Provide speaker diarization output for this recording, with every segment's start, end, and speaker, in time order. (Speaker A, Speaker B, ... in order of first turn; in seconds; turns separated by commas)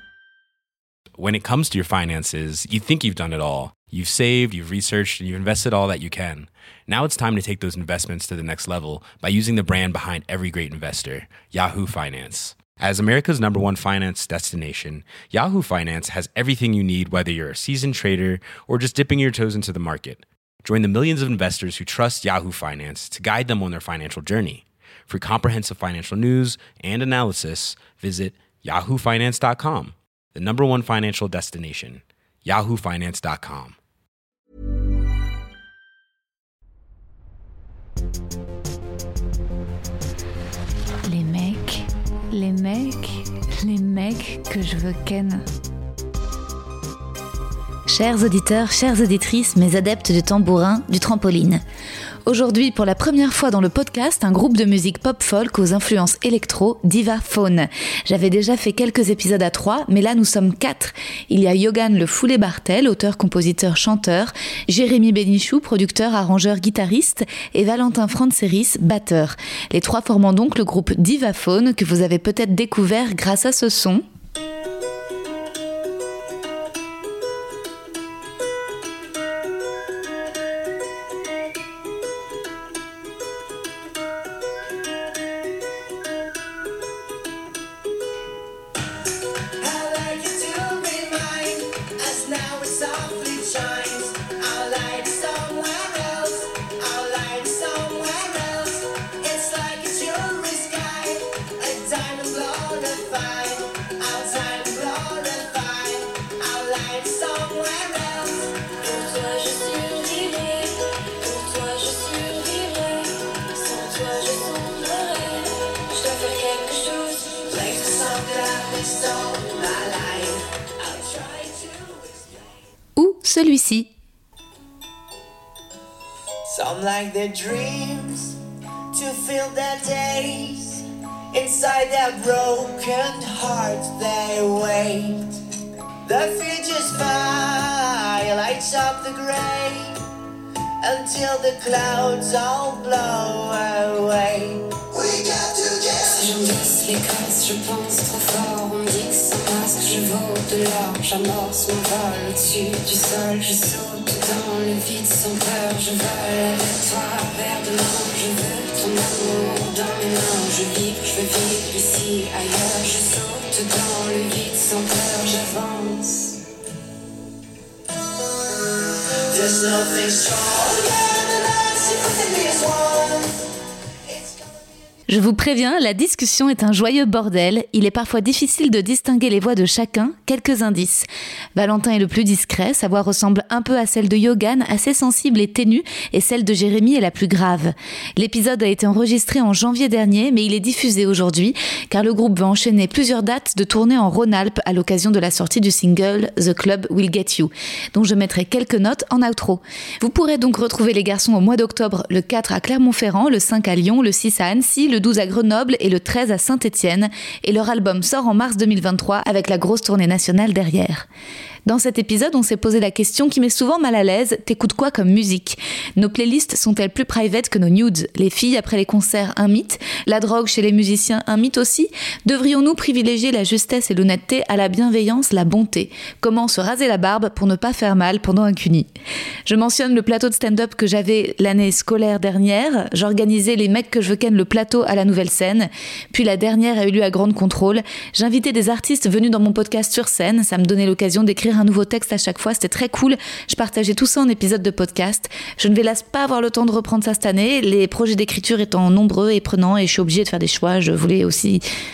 Speaker A: 1.2-33.8, Speaker B: 41.0-45.4, Speaker B: 47.9-51.6, Speaker B: 52.2-74.0, Speaker C: 89.6-109.1, Speaker D: 109.3-110.0, Speaker C: 109.8-110.7, Speaker C: 111.2-111.7, Speaker D: 111.8-112.5, Speaker C: 112.7-122.4, Speaker B: 123.0-123.9, Speaker C: 126.5-128.4, Speaker C: 128.9-135.4, Speaker C: 136.0-140.0, Speaker C: 140.8-146.3, Speaker D: 146.2-166.4, Speaker C: 169.2-173.5, Speaker C: 174.1-174.7, Speaker B: 175.1-211.1, Speaker B: 211.7-228.9, Speaker B: 229.4-251.6